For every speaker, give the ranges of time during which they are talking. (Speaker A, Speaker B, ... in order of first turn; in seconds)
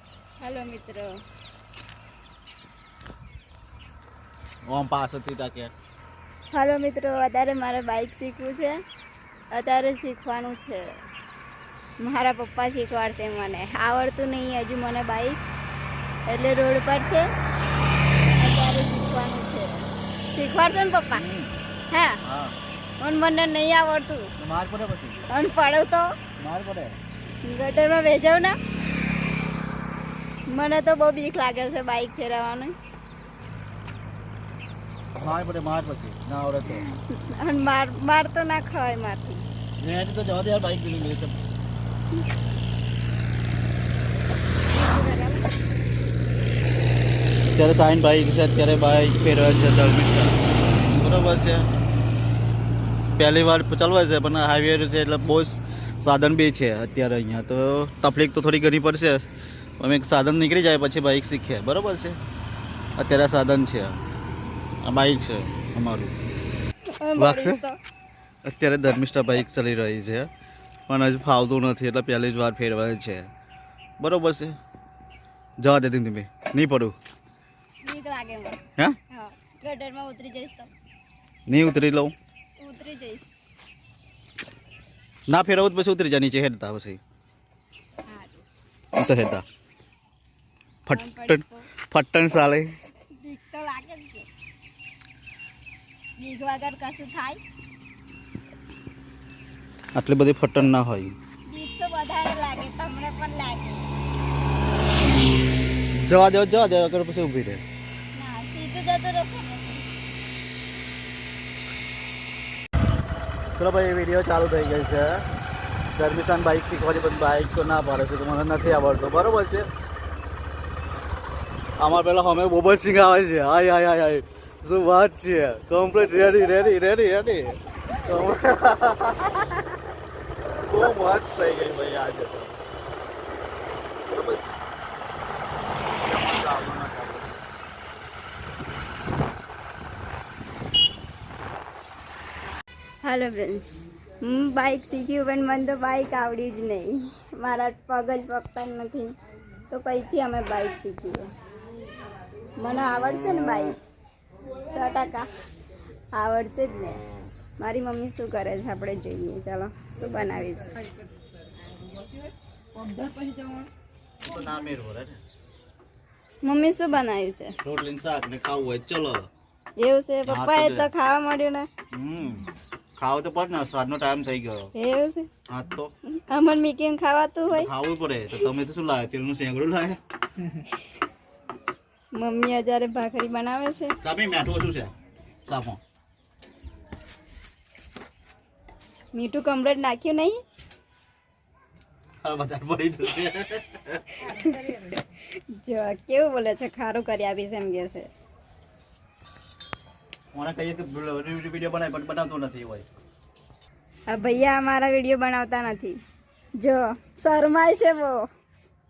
Speaker A: 0.4-1.1, 6.5-8.8, 9.5-10.9, 12.0-15.4, 16.3-17.3, 18.3-21.2, 21.9-22.2, 23.0-24.3, 25.3-26.2, 27.4-28.6, 30.5-32.7, 36.7-39.4, 44.7-45.5, 67.0-67.8, 77.8-80.7, 82.6-83.3, 88.1-88.4, 90.9-91.7, 93.1-94.3, 96.2-97.4, 101.5-103.9, 108.2-110.0, 143.0-149.1, 149.7-151.3, 152.6-153.8, 154.7-155.3, 156.2-157.0, 157.6-160.8, 162.8-163.7, 166.4-167.6, 169.8-171.7, 174.8-175.3, 176.2-177.7, 182.1-184.0, 189.1-190.4, 194.2-198.1, 204.1-206.0, 206.6-208.3
Speaker B: 4.7-5.7, 21.1-21.5, 22.2-22.6, 24.4-25.2, 26.4-27.0, 35.2-36.9, 39.8-41.4, 47.5-51.7, 53.2-59.3, 59.8-62.2, 63.0-64.0, 64.8-66.1, 67.2-67.6, 68.4-70.3, 70.9-73.3, 74.0-74.6, 75.6-77.0, 81.5-82.1, 85.3-87.0, 88.9-89.5, 90.9-92.8, 100.0-101.2, 106.0-107.6, 113.6-115.3, 116.0-119.7, 121.8-129.7, 130.7-132.6, 134.1-134.6, 135.9-137.4, 164.2-165.2, 167.6-169.3, 170.3-170.9, 171.9-174.7, 175.5-175.9, 177.5-180.0, 184.0-184.9, 185.5-185.8, 192.2-194.2, 200.3-202.9